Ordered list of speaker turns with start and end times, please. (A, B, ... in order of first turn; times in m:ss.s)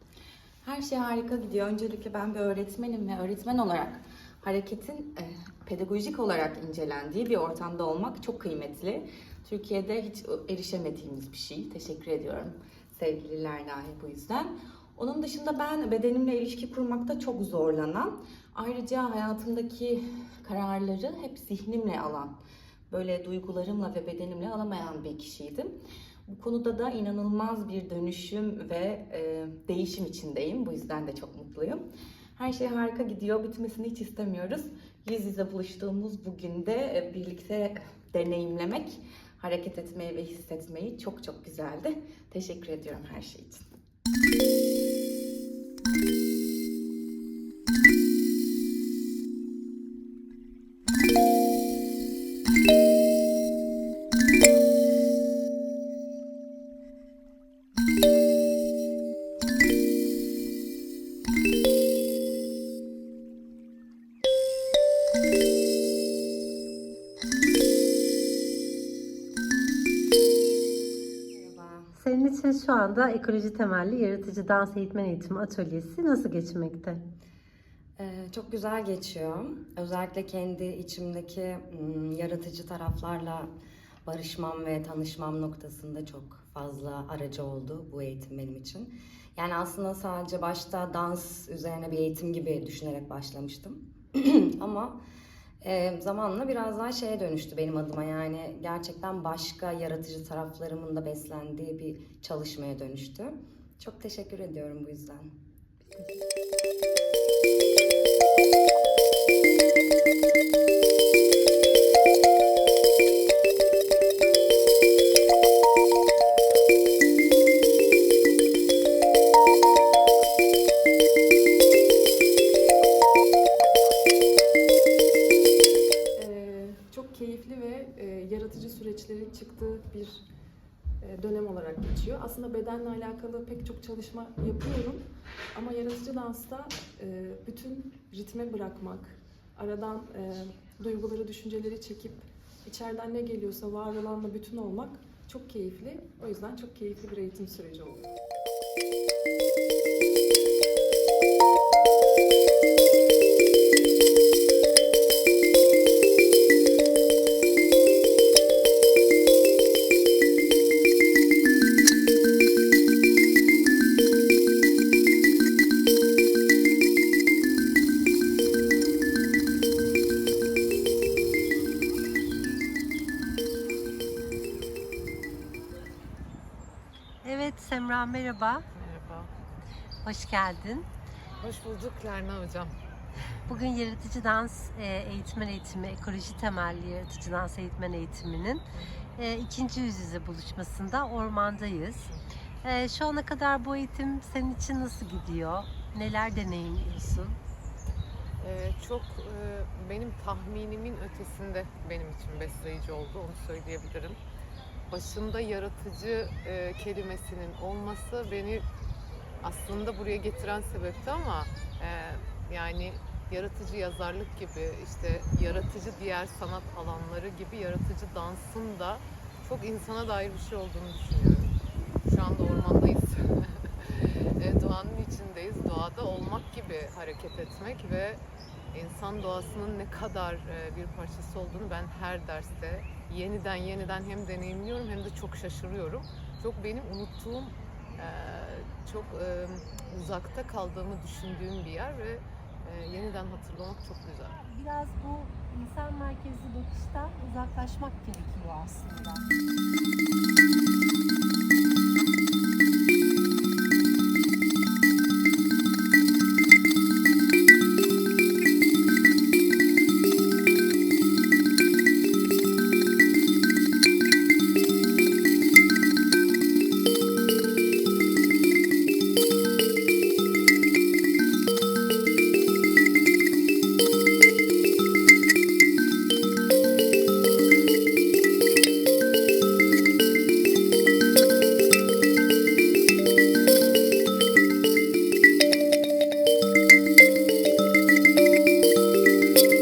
0:00.6-0:22.4 A
0:22.9-0:25.8 A
0:26.3-0:43.6 A
1:11.4-1:11.9 B
1:12.0-1:17.0 C
1:18.0-1:23.5 B
1:24.0-1:35.0 B
1:35.6-1:45.3 B
2:06.2-2:10.2 D
2:11.0-2:28.1 D
2:57.2-2:58.6 C
2:58.7-2:59.3 E
3:00.0-3:00.9 C
3:01.4-3:02.7 E
3:03.5-3:08.6 C
3:09.2-3:12.1 C
3:12.6-3:17.4 C
3:18.4-3:24.2 E
3:24.9-3:28.6 E
3:29.4-3:41.5 E
3:42.0-3:48.2 E
3:48.7-4:04.4 E
4:04.4-4:09.2 C